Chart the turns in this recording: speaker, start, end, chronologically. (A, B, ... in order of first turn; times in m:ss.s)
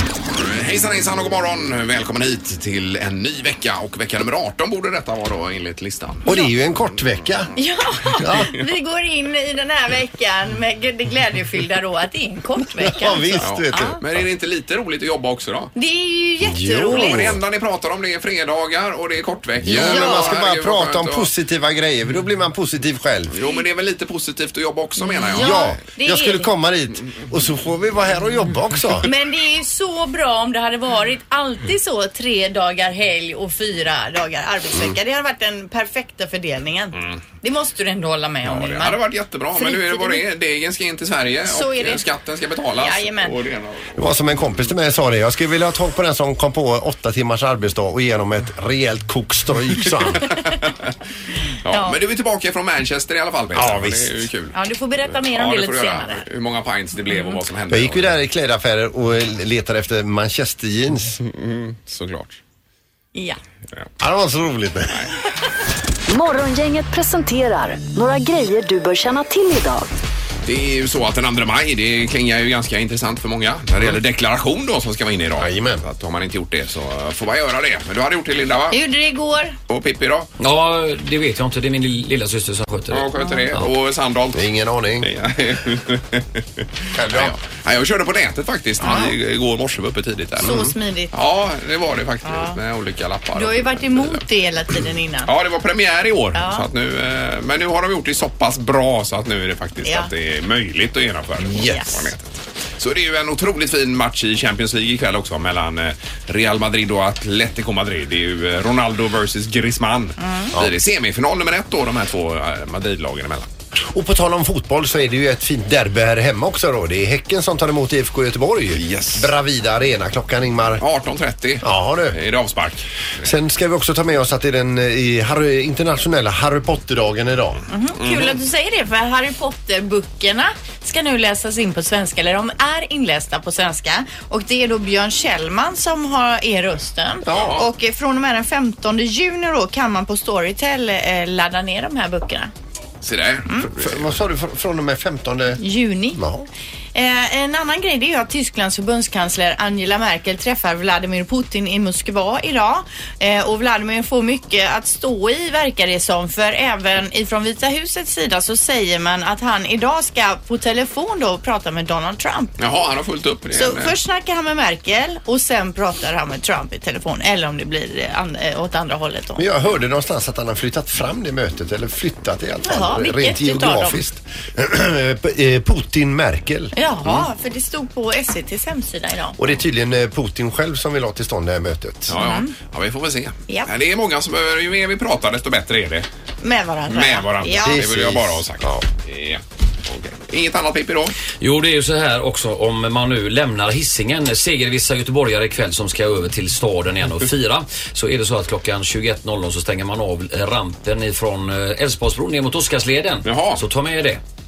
0:00.3-0:06.3 A
0:06.2-0:07.5 B
0:06.8-0:07.4 A
0:07.6-0:14.0 C
0:08.2-0:08.5 B
0:12.8-0:14.2 B
0:13.4-0:15.7 A
0:15.8-0:17.3 C
0:16.4-0:17.4 B
0:16.9-0:21.3 A
0:19.6-0:23.4 B
0:19.7-0:20.3 C
0:23.3-0:25.8 A
0:25.0-0:26.5 C
0:25.4-0:29.1 B
0:29.0-0:39.0 C
0:36.9-0:37.2 A
0:38.4-0:44.1 A
0:39.6-0:40.2 C
0:41.4-0:42.0 C
0:42.8-0:43.3 C
0:44.0-0:50.2 B
0:50.1-0:50.7 A
0:51.7-0:58.1 A
0:51.7-0:52.0 C
0:53.5-0:54.3 B
0:54.5-0:56.2 C
0:57.7-1:01.2 B
1:01.2-1:02.4 A
1:03.1-1:03.4 C
1:04.0-1:05.1 B
1:06.1-1:09.9 D
1:10.4-1:18.8 A
1:15.4-1:15.8 B
1:18.7-1:19.6 C
1:19.7-1:20.3 A
1:20.4-1:23.1 E
1:22.9-1:24.5 A
1:24.3-1:25.1 B
1:25.0-1:34.2 A
1:26.9-1:27.3 B
1:28.8-1:29.1 C
1:30.4-1:31.1 C
1:30.4-1:30.7 B
1:32.2-1:32.6 C
1:33.4-1:35.3 C
1:35.2-1:53.5 A
1:36.3-1:36.7 C
1:39.8-1:40.1 C
1:41.4-1:41.8 B
1:41.6-1:41.9 C
1:50.2-1:50.5 C
1:53.8-2:00.8 B
1:58.7-1:59.3 A
2:00.8-2:02.9 A
2:01.6-2:02.2 B
2:03.2-2:07.6 B
2:07.7-2:22.5 C
2:08.0-2:08.4 A
2:17.3-2:17.6 A
2:23.0-2:24.1 A
2:23.6-2:25.6 B
2:25.6-2:26.2 C
2:26.2-2:26.5 B
2:26.9-2:42.6 C
2:42.6-2:44.0 A
2:43.5-2:49.4 C
2:49.4-2:56.7 B
2:52.6-2:54.0 C
2:56.7-2:59.5 C
2:59.4-3:02.2 B
3:02.1-3:06.1 A
3:02.1-3:02.5 C
3:06.4-3:07.8 C
3:06.9-3:11.2 A
3:07.5-3:08.8 B
3:11.4-3:24.2 E
3:23.2-3:23.6 A